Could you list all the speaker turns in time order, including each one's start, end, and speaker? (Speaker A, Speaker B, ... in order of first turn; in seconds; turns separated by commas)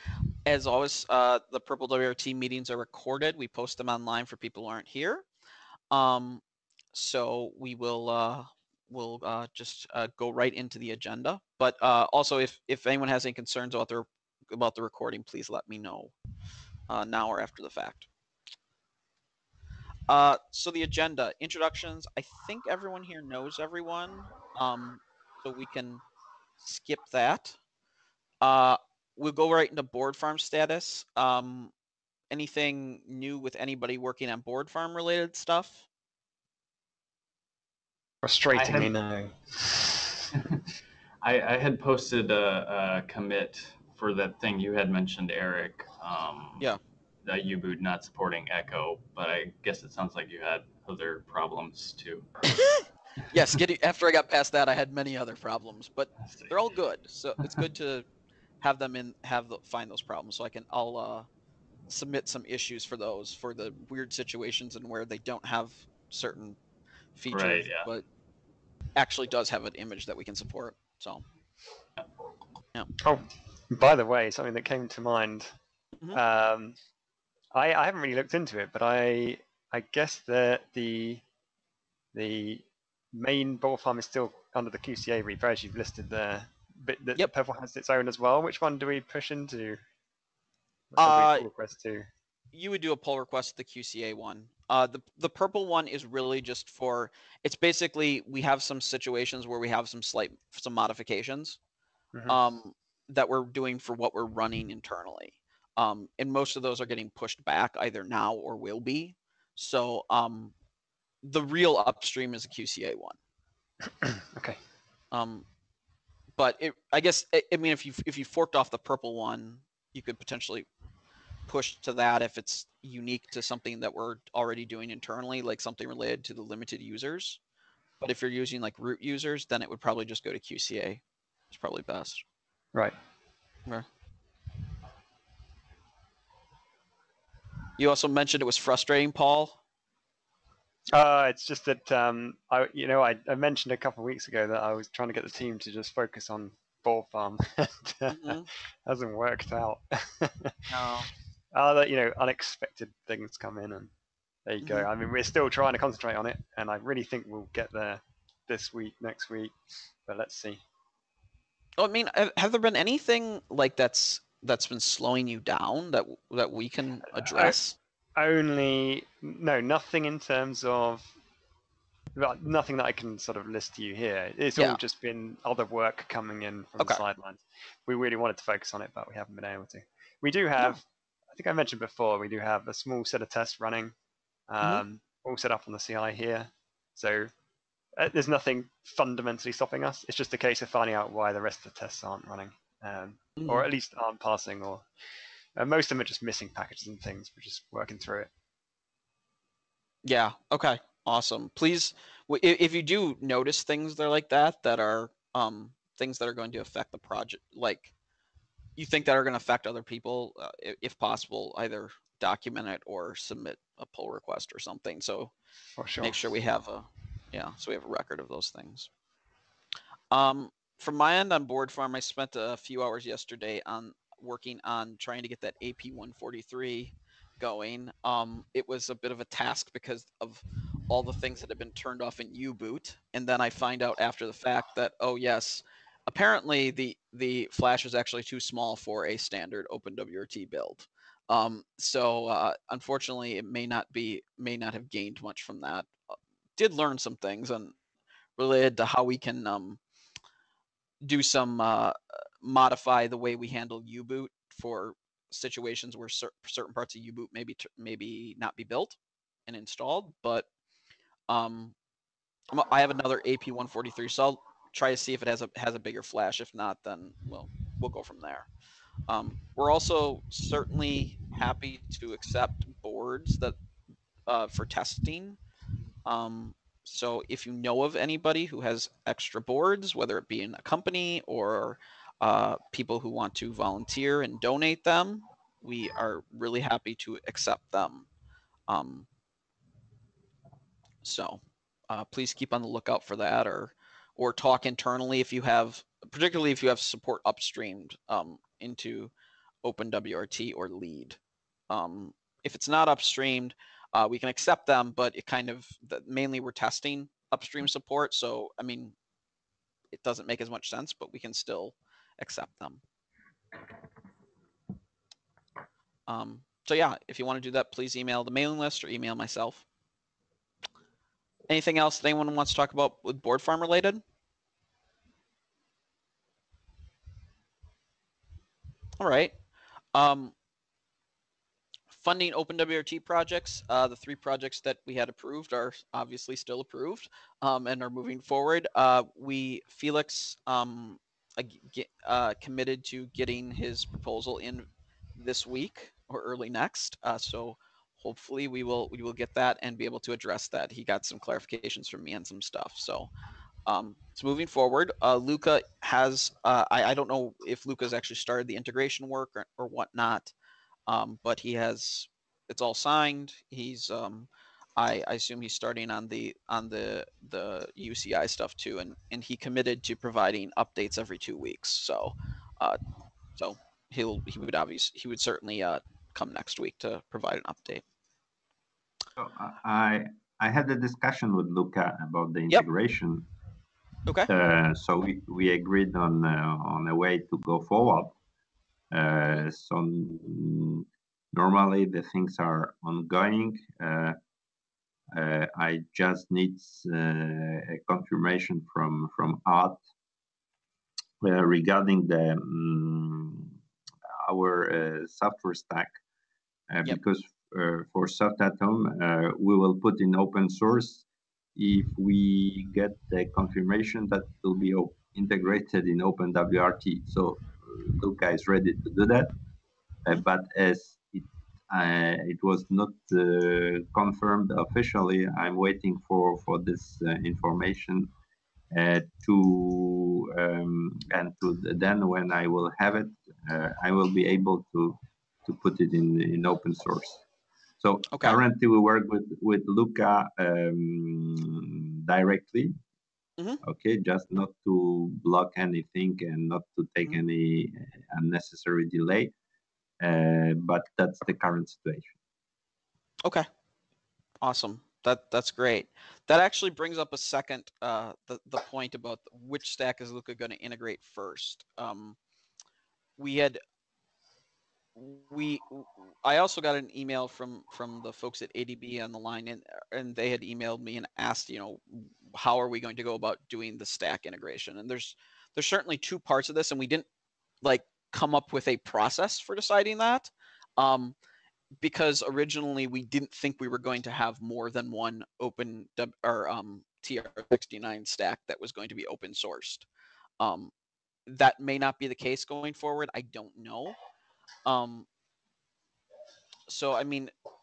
Speaker A: 0.5-5.2, Speaker A: 5.9-6.4, Speaker A: 6.9-16.1, Speaker A: 16.9-18.1, Speaker A: 20.1-26.0, Speaker A: 26.6-27.6, Speaker A: 28.4-31.7, Speaker A: 32.3-35.9, Speaker B: 38.2-40.0, Speaker C: 38.5-38.9, Speaker C: 40.3-40.6, Speaker C: 41.2-46.7, Speaker C: 47.2-52.3, Speaker A: 52.5-52.8, Speaker A: 53.3-58.0, Speaker C: 56.2-56.5, Speaker A: 58.6-61.3, Speaker A: 61.9-66.6, Speaker A: 67.2-68.0, Speaker C: 67.3-67.9, Speaker A: 68.9-71.2, Speaker B: 73.0-75.5, Speaker B: 76.1-76.8, Speaker B: 77.5-81.2, Speaker B: 82.1-89.8, Speaker B: 90.9-92.1, Speaker A: 91.0-91.5, Speaker A: 92.5-101.6, Speaker A: 102.3-110.5, Speaker A: 111.2-113.2, Speaker B: 114.0-114.6, Speaker A: 115.1-115.5, Speaker A: 116.4-120.7, Speaker A: 121.5-127.4, Speaker A: 128.0-132.2, Speaker A: 137.8-139.6, Speaker B: 140.9-150.9, Speaker A: 148.1-148.5, Speaker A: 150.7-151.1, Speaker B: 151.5-153.9, Speaker B: 154.4-160.6, Speaker A: 154.6-154.9, Speaker A: 161.8-167.8, Speaker B: 167.1-167.6, Speaker B: 168.2-171.1, Speaker B: 172.1-183.9, Speaker B: 184.5-187.3, Speaker B: 188.0-194.9, Speaker A: 193.4-193.7, Speaker B: 195.6-198.3, Speaker A: 200.0-207.9, Speaker A: 208.8-215.3, Speaker B: 215.8-216.2, Speaker A: 216.0-218.9, Speaker A: 220.1-245.9, Speaker A: 246.6-247.7, Speaker A: 248.4-249.8, Speaker A: 251.0-260.5, Speaker A: 261.3-261.7, Speaker A: 262.5-268.5, Speaker A: 269.1-273.6, Speaker A: 274.3-275.4, Speaker A: 276.0-288.1, Speaker A: 288.7-289.1, Speaker A: 291.0-299.1, Speaker A: 299.6-301.2, Speaker A: 301.7-308.9, Speaker A: 309.9-312.8, Speaker A: 316.1-319.6, Speaker A: 321.5-324.0, Speaker A: 329.0-329.3, Speaker A: 329.9-330.3, Speaker A: 331.9-353.1, Speaker A: 353.6-360.3, Speaker A: 360.9-372.8, Speaker A: 373.4-377.8, Speaker D: 379.2-383.3, Speaker D: 384.3-388.2, Speaker D: 388.9-394.2, Speaker D: 395.1-399.8, Speaker D: 401.2-403.5, Speaker D: 404.2-405.9, Speaker D: 406.7-411.0, Speaker D: 411.6-419.3, Speaker D: 420.0-428.1, Speaker D: 428.7-437.2, Speaker D: 437.8-442.7, Speaker A: 438.1-438.4, Speaker D: 443.6-449.3, Speaker D: 450.0-452.2, Speaker A: 454.4-462.2, Speaker A: 463.2-463.6, Speaker A: 464.9-477.1, Speaker A: 477.6-481.1, Speaker A: 481.8-489.9, Speaker A: 490.4-490.7, Speaker A: 491.2-494.0, Speaker A: 494.6-495.1, Speaker A: 496.7-497.3